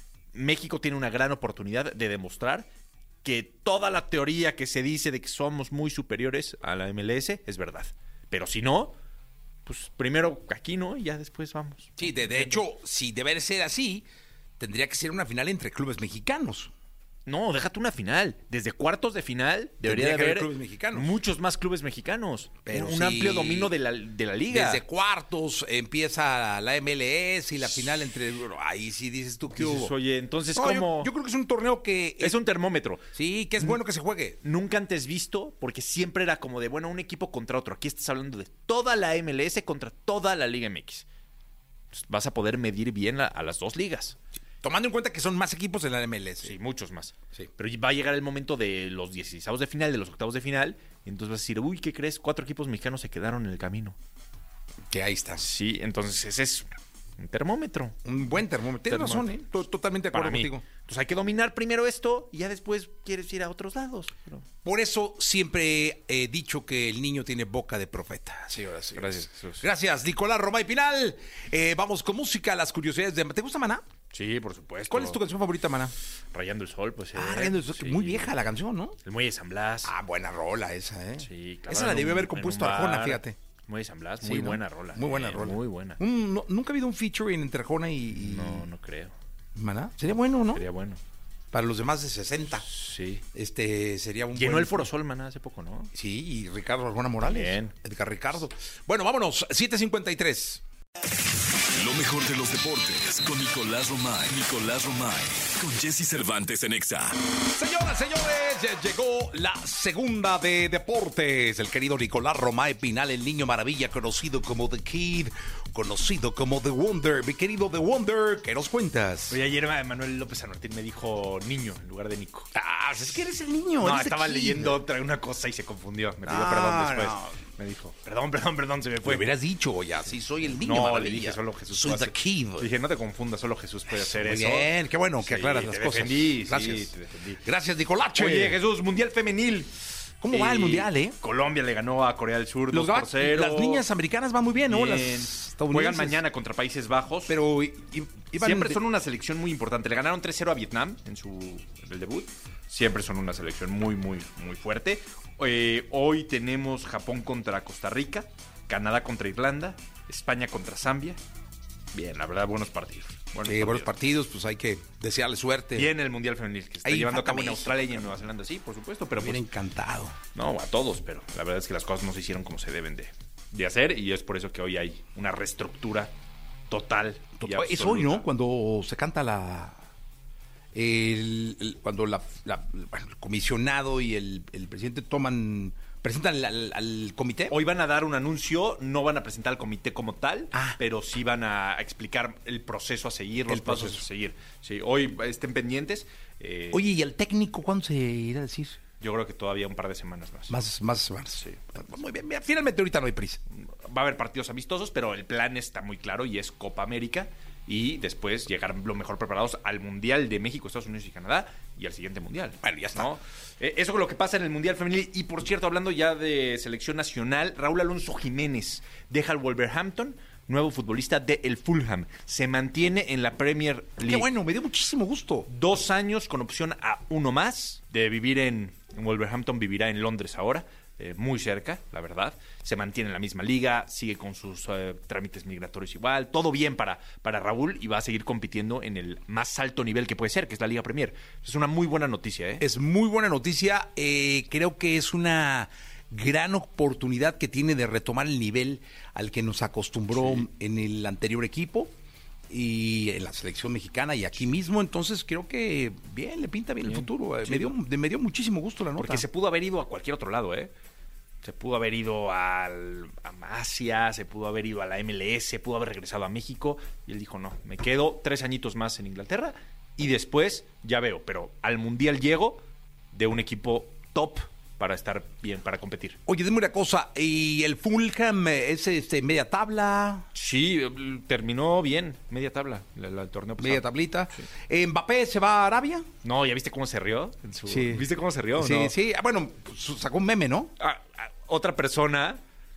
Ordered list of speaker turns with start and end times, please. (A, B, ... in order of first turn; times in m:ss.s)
0:00.3-0:02.7 A
0:03.2-0:08.9 A
0:09.6-0:12.6 A
0:12.0-0:14.1 B
0:14.6-0:16.7 B
0:17.2-0:24.8 A
0:19.8-0:21.2 B
0:22.7-0:23.7 B
0:24.5-0:29.9 B
0:29.5-0:31.1 A
0:30.5-0:32.4 B
0:32.2-0:33.1 A
0:33.1-0:34.4 B
0:34.4-0:41.1 A
0:41.9-0:44.2 A
0:44.6-0:46.6 B
0:46.4-0:54.0 A
0:54.9-0:55.4 B
0:55.4-0:58.0 A
0:58.0-1:00.6 B
0:58.8-0:59.4 A
1:00.1-1:04.4 A
1:04.6-1:13.8 B
1:08.9-1:09.7 A
1:14.1-1:15.2 A
1:14.9-1:15.9 B
1:16.3-1:18.3 A
1:17.1-1:19.0 B
1:19.0-1:19.9 A
1:19.8-1:23.4 B
1:21.2-1:26.0 A
1:24.2-1:28.7 B
1:28.1-1:29.2 A
1:29.6-1:30.6 B
1:30.5-1:31.0 A
1:31.5-1:32.7 B
1:32.7-1:33.2 A
1:33.3-1:34.9 B
1:34.3-1:35.9 A
1:35.9-1:40.6 B
1:37.2-1:37.7 A
1:41.8-1:47.2 C
1:47.6-1:59.4 B
1:59.3-2:02.5 A
2:02.6-2:04.8 B
2:03.8-2:09.3 A
2:06.2-2:07.4 B
2:09.0-2:12.7 B
2:10.5-2:17.4 A
2:13.9-2:18.6 B
2:18.2-2:19.7 A
2:20.2-2:21.2 B
2:20.3-2:23.9 A
2:22.7-2:26.2 B
2:24.6-2:27.4 A
2:27.3-2:28.8 B
2:28.4-2:41.2 A
2:41.9-2:43.9 A
2:43.4-2:45.9 B
2:45.8-2:49.4 A
2:46.8-2:48.1 B
2:49.2-2:50.2 B
2:50.3-2:56.1 A
2:56.7-2:58.3 A
2:57.4-2:59.8 B
3:00.7-3:07.6 B
3:07.5-3:16.9 A
3:10.5-3:10.8 B
3:13.5-3:14.0 B
3:16.7-3:18.8 B
3:19.0-3:20.6 A
3:20.5-3:23.4 B
3:23.5-3:44.3 A
3:32.6-3:33.1 B
3:44.0-3:45.5 B
3:45.5-4:02.7 A
4:02.6-4:11.9 B
4:10.1-4:10.4 A
4:12.5-4:19.2 B
4:16.8-4:17.7 A
4:19.0-4:20.7 A
4:21.4-4:36.2 A
4:36.3-4:40.3 B
4:40.3-4:44.4 A
4:43.6-4:46.1 B
4:46.2-4:49.0 A
4:47.7-4:50.7 B
4:50.8-4:52.4 A